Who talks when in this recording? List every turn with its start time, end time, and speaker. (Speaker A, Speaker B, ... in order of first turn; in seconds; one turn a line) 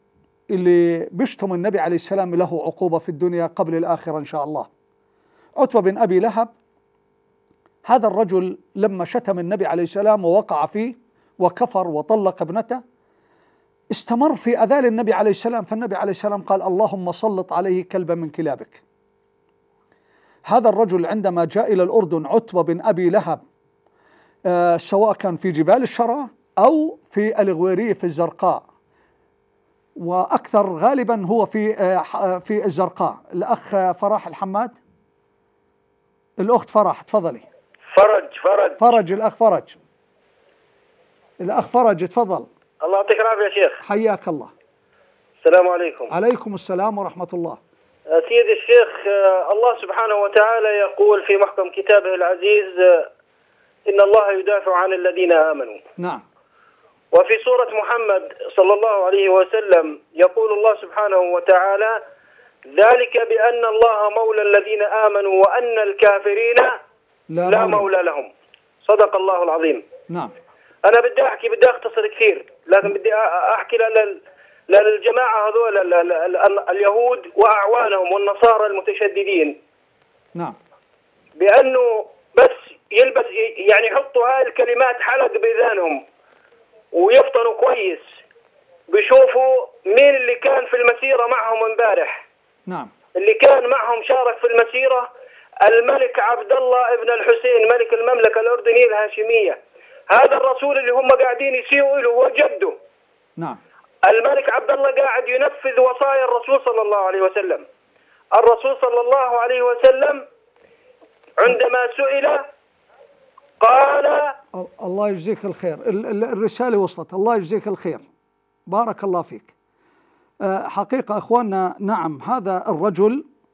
Speaker A: 0.5-4.7
Speaker A: 5.6-6.5
Speaker A: 7.8-12.8
Speaker A: 13.9-18.8
Speaker A: 20.5-23.4
Speaker A: 24.4-28.6
Speaker A: 30.0-34.8
Speaker A: 36.4-37.5
Speaker B: 37.9-38.8
Speaker A: 38.8-39.8
Speaker A: 41.4-42.5
Speaker B: 42.8-43.8
Speaker A: 43.8-44.5
Speaker B: 45.4-46.1
Speaker A: 46.1-47.6
Speaker B: 48.1-53.1
Speaker B: 53.9-55.8
Speaker A: 56.0-56.2
Speaker B: 57.1-62.0
Speaker B: 62.7-66.8
Speaker A: 67.3-67.9
Speaker B: 67.5-68.3
Speaker B: 68.8-69.8
Speaker A: 70.1-70.3
Speaker B: 70.8-79.6
Speaker B: 81.4-86.0
Speaker B: 86.9-88.0
Speaker B: 88.9-92.2
Speaker A: 92.7-92.9
Speaker B: 93.1-95.1
Speaker B: 95.6-102.8
Speaker B: 104.0-107.6
Speaker B: 108.3-110.2
Speaker B: 111.4-112.4
Speaker B: 113.6-114.4
Speaker A: 114.5-118.0
Speaker A: 118.7-119.5
Speaker A: 120.4-123.2